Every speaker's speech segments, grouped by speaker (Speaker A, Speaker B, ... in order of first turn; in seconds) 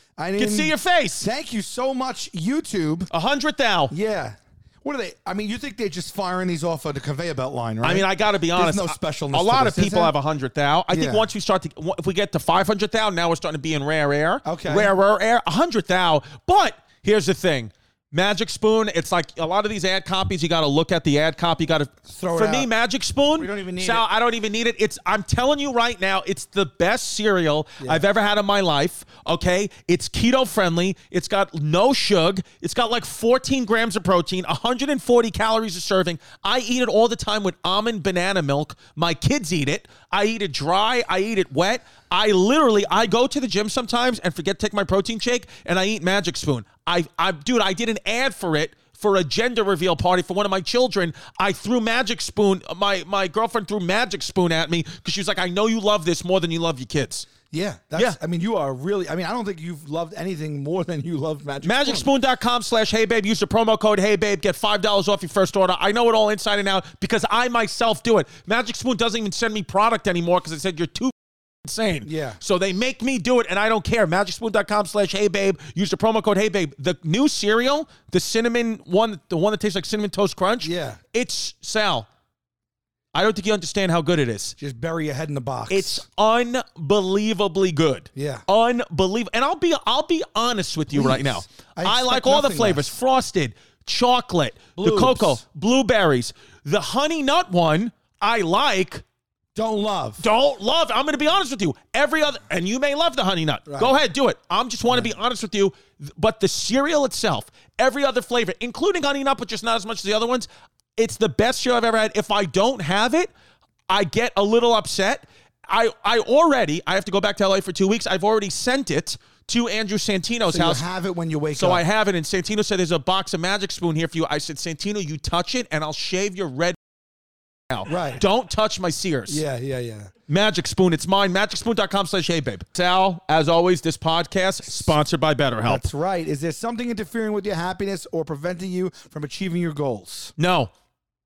Speaker A: 0.2-3.1, 3.9-10.1, 10.9-11.3, 14.4-14.9, 22.0-22.7, 23.4-24.0, 27.8-28.0, 57.5-62.1, 72.0-72.4, 80.6-81.0, 84.6-86.0, 88.1-88.5, 90.9-92.9, 94.8-95.4, 99.5-100.2, 103.7-104.0, 104.9-105.1, 120.5-121.8, 127.8-128.2, 129.3-130.1, 135.6-140.3
Speaker B: 0.4-1.3, 3.1-3.9, 7.8-57.3, 61.6-82.1, 83.1-84.5, 85.7-99.0, 100.2-113.3, 113.9-120.8, 121.5-126.8, 127.7-129.4, 130.3-135.8, 140.4-140.7